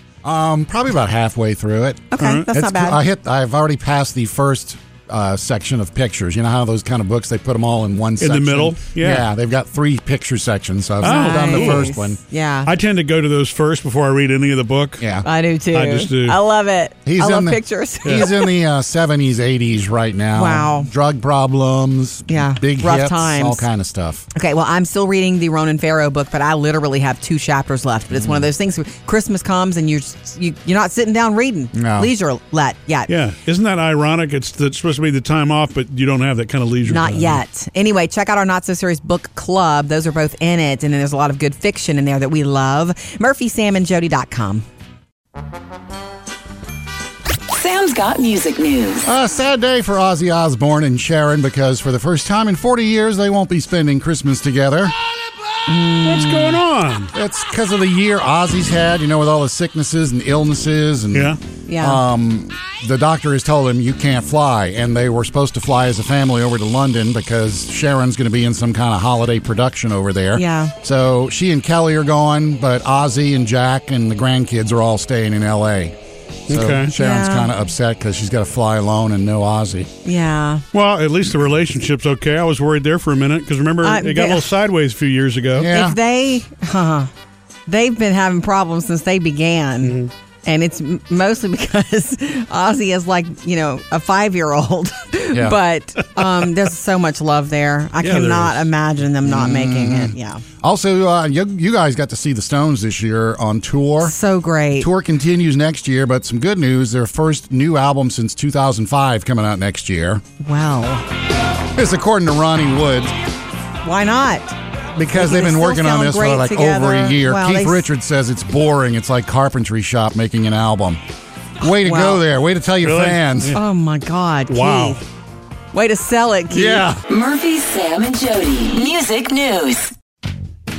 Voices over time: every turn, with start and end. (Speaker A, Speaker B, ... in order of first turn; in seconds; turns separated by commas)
Speaker A: 0.2-12.2, Speaker B: 2.1-3.0, Speaker C: 2.2-2.5, Speaker C: 8.2-9.3, Speaker B: 11.0-12.7, Speaker C: 11.0-11.9, Speaker C: 12.7-15.1, Speaker A: 15.0-15.2, Speaker B: 15.2-18.5, Speaker C: 15.7-16.4, Speaker A: 17.1-24.2, Speaker B: 20.4-20.9, Speaker B: 22.3-23.7, Speaker B: 24.3-33.1, Speaker A: 28.1-28.5, Speaker A: 31.8-32.1, Speaker C: 33.1-37.4, Speaker B: 36.9-44.6, Speaker D: 47.5-49.1, Speaker A: 49.0-55.0, Speaker B: 55.7-56.6, Speaker C: 56.0-57.1, Speaker A: 57.1-76.0, Speaker C: 61.1-61.4, Speaker B: 61.7-62.0, Speaker B: 70.3-70.7, Speaker A: 76.5-79.9, Speaker C: 76.5-76.9, Speaker B: 76.9-77.5, Speaker B: 80.0-80.6, Speaker C: 80.7-85.7, Speaker B: 83.8-84.5, Speaker A: 85.6-86.0, Speaker B: 85.7-87.1, Speaker B: 87.7-100.4, Speaker C: 89.8-90.1, Speaker A: 95.3-95.6, Speaker C: 98.0-98.7, Speaker A: 99.2-104.1, Speaker B: 104.0-104.9, Speaker A: 104.8-110.2, Speaker B: 110.4-111.0, Speaker A: 111.7-113.1, Speaker B: 113.8-114.5, Speaker A: 115.0-121.0, Speaker B: 115.1-117.9, Speaker A: 121.6-123.5, Speaker B: 121.8-122.2, Speaker C: 122.8-123.6, Speaker B: 123.5-125.0, Speaker C: 124.5-125.0, Speaker B: 125.7-126.9, Speaker A: 126.5-127.0, Speaker D: 127.1-129.9